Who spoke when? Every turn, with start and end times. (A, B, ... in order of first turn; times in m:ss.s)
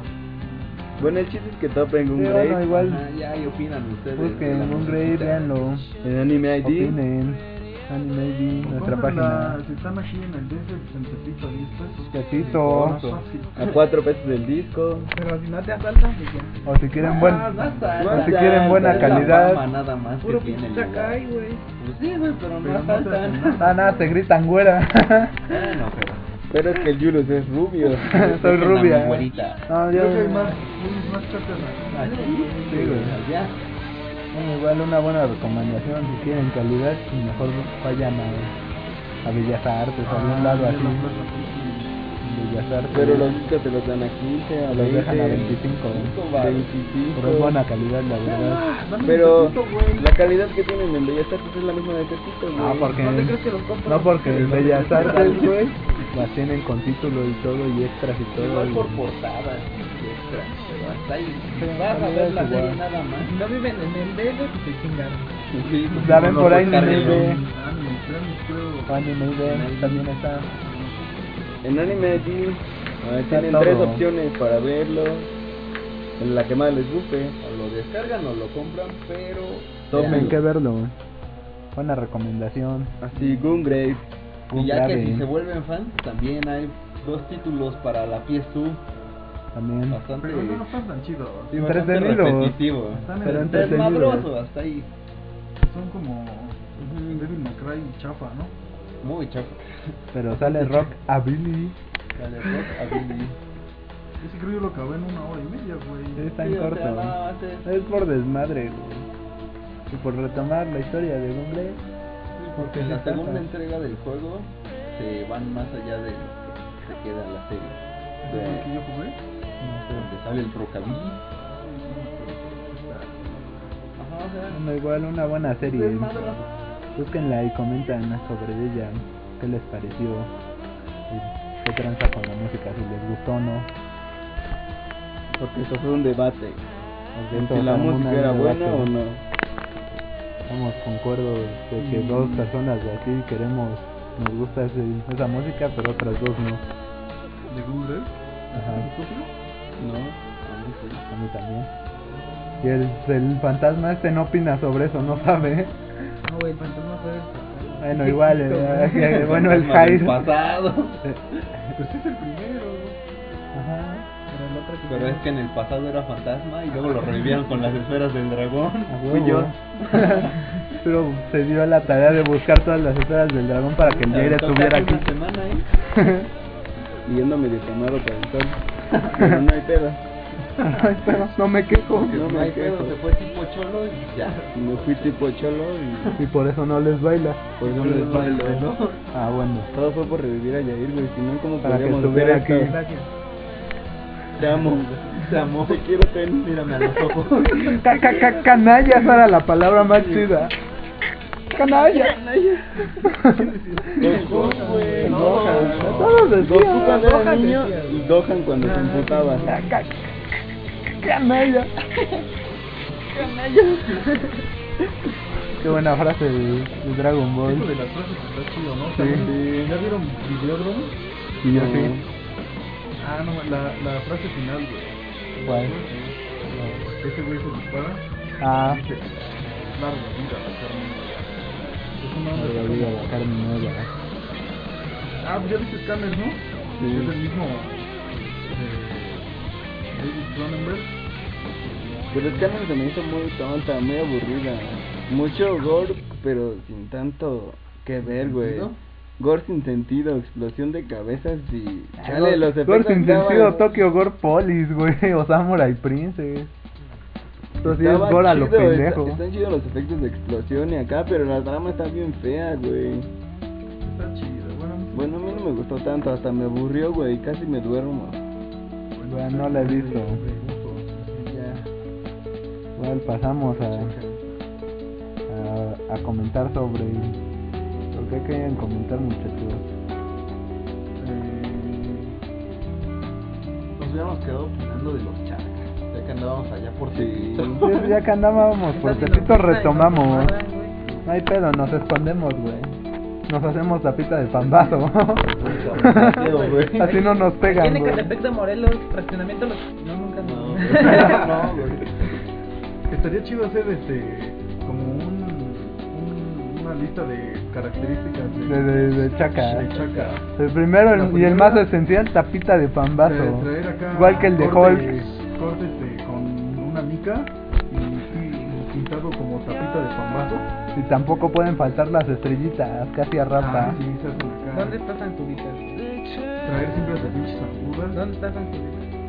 0:00.6-0:01.0 A
0:01.0-0:02.7 B
0:02.2-0:03.0 C
0:02.7-0:05.5 D
0:04.2-0:05.9 C
0:06.0-0:07.0 B
0:06.6-0:09.6 C
0:08.6-0:13.7 A
0:12.1-0:13.2 C
0:13.6-0:15.1 B
0:15.1-0:16.6 E
0:16.6-0:19.6 C
0:17.0-0:21.2 D
0:17.3-0:18.1 A
0:18.0-0:19.4 B
0:20.2-0:21.6 E
0:21.8-0:23.7 D
0:22.6-0:24.1 A
0:23.6-0:25.5 C
0:25.5-0:26.2 D
0:26.5-0:28.2 B
0:28.0-0:29.6 D
0:28.1-0:30.6 C
0:29.9-0:32.6 A
0:31.9-0:33.6 D
0:32.7-0:33.2 C
0:34.3-0:38.5 C
0:39.2-0:41.1 C
0:40.0-0:42.0 A
0:42.2-0:43.3 C
0:42.9-0:45.6 B
0:44.7-0:46.2 C
0:45.9-0:46.7 D
0:46.3-0:47.6 B
0:47.1-0:48.6 C
0:48.2-0:50.1 A
0:49.0-0:52.9 B
0:52.6-0:59.0 C
0:52.9-0:55.5 E
0:54.3-0:55.6 D
0:54.9-0:55.9 A
0:58.3-1:03.4 D
1:01.6-1:02.8 C
1:03.2-1:05.3 E
1:05.6-1:07.4 D
1:05.9-1:09.1 A
1:06.0-1:07.4 C
1:08.9-1:10.5 C
1:09.4-1:10.1 D
1:10.4-1:11.3 A
1:11.6-1:15.3 B
1:13.3-1:14.0 C
1:16.2-1:17.4 B
1:17.4-1:20.4 D
1:19.9-1:20.4 B
1:19.9-1:20.9 C
1:21.8-1:22.9 C
1:23.0-1:24.0 B
1:24.5-1:25.3 C
1:24.5-1:28.8 D
1:29.5-1:30.0 C
1:29.9-1:30.7 D
1:30.2-1:31.6 A
1:31.5-1:34.9 D
1:31.5-1:32.6 C
1:32.9-1:34.0 A
1:33.2-1:34.3 C
1:35.6-1:38.6 A
1:36.8-1:37.4 D
1:39.0-1:40.9 D
1:40.1-1:41.8 C
1:42.1-1:43.4 D
1:44.2-1:46.3 A
1:46.2-1:49.1 C
1:46.4-1:47.7 D
1:49.9-1:51.9 C
1:52.4-1:57.8 D
1:52.6-1:53.4 C
1:58.2-1:59.2 A
1:58.3-1:58.6 B
1:59.6-2:00.1 C
1:59.9-2:01.2 D
2:01.7-2:03.4 A
2:04.0-2:04.6 D
2:04.5-2:06.2 C
2:05.6-2:06.5 D
2:07.0-2:10.3 C
2:11.1-2:13.7 C
2:15.3-2:16.6 B
2:17.1-2:18.9 C
2:17.3-2:19.2 B
2:20.5-2:26.6 C
2:21.8-2:22.5 A
2:27.5-2:29.3 A
2:28.6-2:28.9 C
2:29.8-2:30.2 B
2:30.4-2:31.0 D
2:31.1-2:31.7 C
2:32.6-2:35.8 C
2:36.2-2:39.3 E
2:37.8-2:40.3 C
2:38.9-2:41.5 D
2:41.8-2:43.0 A
2:43.5-2:44.1 C
2:44.3-2:45.3 E
2:44.9-2:50.4 D
2:48.9-2:55.1 C
2:53.8-2:55.7 D
2:55.9-2:56.3 C
2:57.1-3:00.0 B
3:00.6-3:02.2 C
3:01.9-3:05.4 D
3:02.0-3:03.0 B
3:04.5-3:06.2 B
3:06.2-3:07.4 C
3:07.6-3:08.7 B
3:07.6-3:09.0 D
3:09.1-3:09.7 C
3:09.7-3:12.7 B
3:11.6-3:12.8 C
3:12.7-3:13.1 E
3:14.4-3:17.1 B
3:14.4-3:15.9 D
3:16.4-3:19.1 D
3:17.6-3:20.5 C
3:19.8-3:20.3 D
3:21.5-3:22.2 C
3:21.6-3:23.1 B
3:23.1-3:23.5 C
3:23.7-3:26.1 A
3:24.0-3:29.6 B
3:24.0-3:26.3 D
3:25.0-3:27.0 C
3:26.7-3:28.8 E
3:28.6-3:29.5 A
3:29.4-3:30.1 C
3:30.9-3:31.7 C
3:33.1-3:34.2 B
3:35.6-3:37.7 C
3:37.4-3:41.0 A
3:39.0-3:39.3 C
3:39.0-3:39.8 B
3:41.4-3:42.0 B
3:41.4-3:42.0 C
3:43.0-3:46.2 A
3:45.4-3:45.8 C
3:46.5-3:46.9 C
3:46.7-3:53.2 A
3:48.4-3:48.8 C
3:52.3-3:53.9 C
3:55.2-3:59.4 A
3:56.8-3:57.2 B
3:59.9-4:01.0 A
4:02.1-4:02.5 A
4:02.1-4:13.7 B
4:08.1-4:08.8 D
4:12.0-4:16.5 C
4:17.6-4:19.2 C
4:17.6-4:23.1 B
4:23.8-4:25.5 A
4:24.9-4:28.2 B
4:28.9-4:31.6 A
4:29.1-4:30.2 C
4:31.3-4:31.5 D
4:32.8-4:33.9 C
4:33.6-4:34.1 D
4:35.3-4:37.2 C
4:37.9-4:39.7 C
4:41.0-4:42.1 A
4:43.8-4:48.0 D
4:46.9-4:47.6 B
4:47.6-4:50.4 C
4:48.7-4:50.7 E
4:51.0-4:52.7 C
4:53.3-4:58.1 C
4:55.3-4:57.0 D
4:56.2-5:01.4 E
5:00.2-5:02.0 D
5:01.0-5:01.5 A
5:02.9-5:10.3 A
5:08.5-5:09.7 C
5:09.7-5:10.2 D
5:10.4-5:15.1 C
5:10.9-5:11.7 A
5:13.0-5:20.5 A
5:20.7-5:23.8 C
5:23.4-5:24.8 A
5:24.5-5:25.9 E
5:26.4-5:28.0 A
5:27.9-5:28.9 E